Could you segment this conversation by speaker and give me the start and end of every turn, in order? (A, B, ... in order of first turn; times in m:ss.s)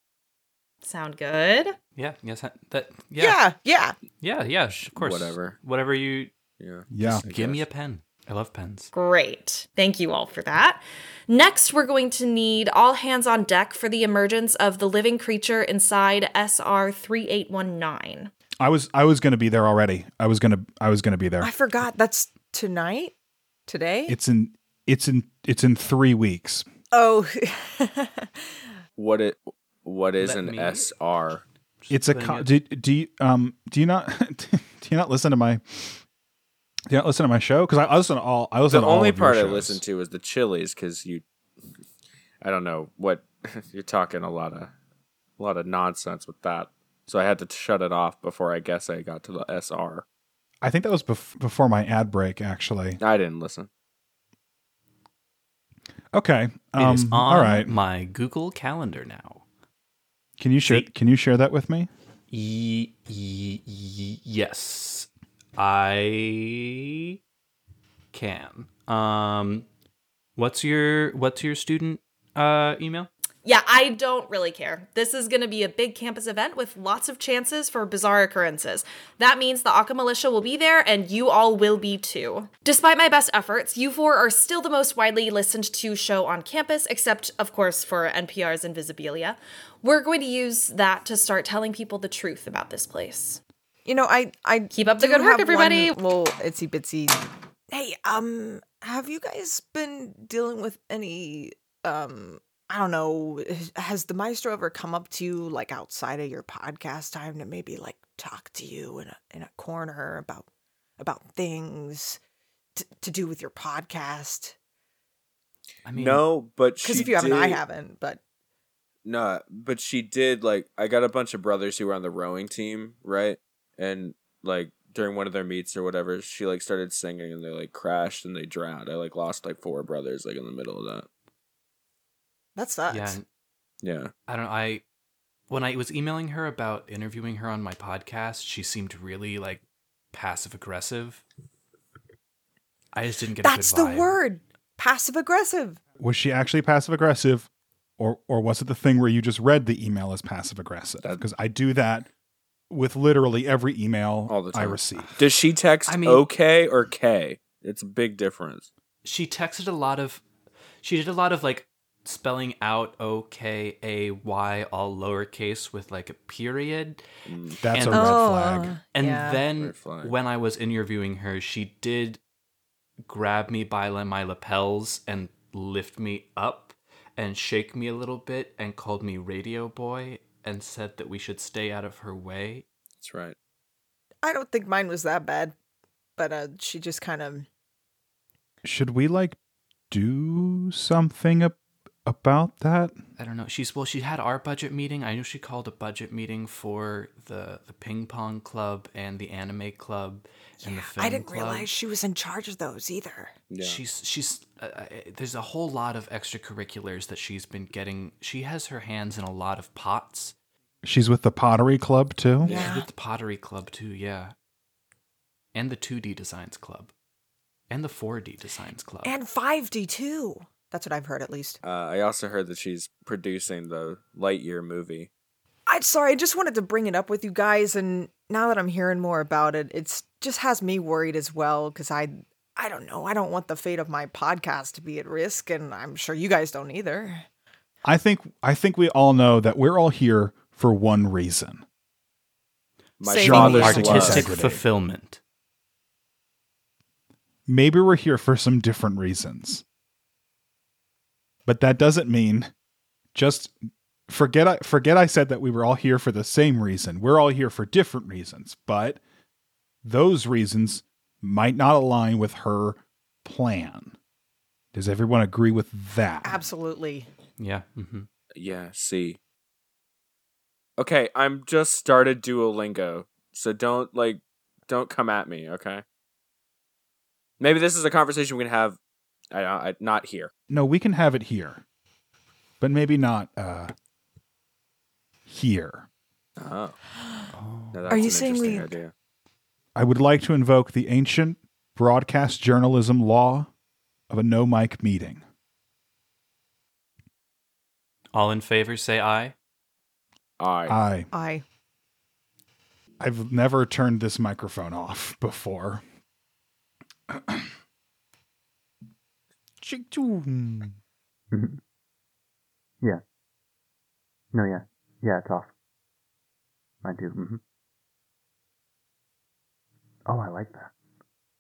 0:00.8-0:01.7 A
0:02.0-0:03.4 B
0:03.2-0:04.0 C
0:04.2-0:06.3 B
0:04.9-0:05.6 D
0:06.6-0:07.6 D
0:06.9-0:07.2 E
0:07.0-0:08.9 B
0:08.9-0:18.3 A
0:18.6-0:21.5 E
0:21.4-0:23.1 C
0:23.7-0:24.2 C
0:24.1-0:26.6 E
0:26.9-0:28.5 C
0:29.0-0:31.4 D
0:30.2-0:30.9 B
0:31.8-0:32.5 B
0:31.9-0:36.0 E
0:36.9-0:39.8 E
0:38.7-0:41.2 D
0:42.4-0:44.7 D
0:45.4-0:50.0 D
0:50.6-0:53.0 E
0:53.0-0:53.7 D
0:56.1-0:57.7 E
0:56.8-0:59.4 B
1:00.4-1:01.9 E
1:02.3-1:07.1 B
1:08.1-1:09.6 B
1:10.4-1:13.1 B
1:13.4-1:33.4 A
1:33.8-1:50.5 C
1:34.7-1:36.1 A
1:51.0-1:52.2 C
1:52.8-1:54.5 C
1:55.8-1:56.2 B
1:55.9-1:57.6 D
1:56.8-1:58.2 C
1:59.0-2:11.1 D
2:12.6-2:13.2 C
2:12.9-2:13.2 B
2:13.8-2:14.1 D
2:14.3-2:14.8 B
2:15.5-2:21.2 B
2:22.9-2:24.2 B
2:23.4-2:25.8 C
2:26.0-2:32.1 E
2:32.7-2:35.1 E
2:34.3-2:38.7 D
2:35.9-2:36.2 B
2:39.0-2:40.2 B
2:40.8-2:47.0 B
2:47.2-2:47.6 D
2:47.6-2:48.7 E
2:47.7-2:48.2 B
2:47.9-2:49.4 C
2:48.9-2:52.2 B
2:49.5-2:50.2 D
2:53.0-3:02.6 B
3:03.0-3:03.3 D
3:04.2-3:05.5 C
3:06.2-3:07.5 C
3:08.6-3:09.4 E
3:09.9-3:12.9 E
3:13.2-3:21.7 B
3:20.6-3:23.3 C
3:23.5-3:23.8 D
3:23.6-3:30.3 B
3:30.8-3:32.5 E
3:32.4-3:32.8 D
3:32.4-3:32.9 C
3:32.5-3:34.3 B
3:35.5-3:36.9 B
3:37.7-3:39.1 B
3:39.0-3:41.6 C
3:41.6-3:45.1 D
3:45.7-3:57.2 C
3:57.8-4:01.6 E
4:03.0-4:04.3 D
4:03.0-4:04.3 C
4:03.2-4:04.6 E
4:03.2-4:05.2 B
4:07.5-4:09.6 E
4:11.4-4:12.5 E
4:13.1-4:13.5 E
4:14.1-4:19.0 E
4:19.8-4:23.9 E
4:24.7-4:26.4 E
4:26.2-4:27.1 C
4:27.4-4:28.1 B
4:28.4-4:29.2 D
4:30.8-4:35.8 D
4:37.4-4:38.8 D
4:39.3-4:40.3 D
4:40.5-4:41.6 E
4:42.6-4:43.7 E
4:45.2-4:45.9 E
4:46.4-4:46.8 D
4:47.4-4:47.8 B
4:47.7-4:48.9 D
4:47.9-4:48.8 C
4:49.7-4:53.5 E
4:54.1-4:55.2 E
4:58.1-4:59.3 B
5:00.4-5:00.8 D
5:00.7-5:01.1 E
5:01.1-5:01.4 C
5:03.0-5:05.8 E
5:07.1-5:07.5 E
5:09.6-5:10.8 E
5:14.3-5:15.5 F
5:16.8-5:17.4 F
5:20.1-5:20.7 F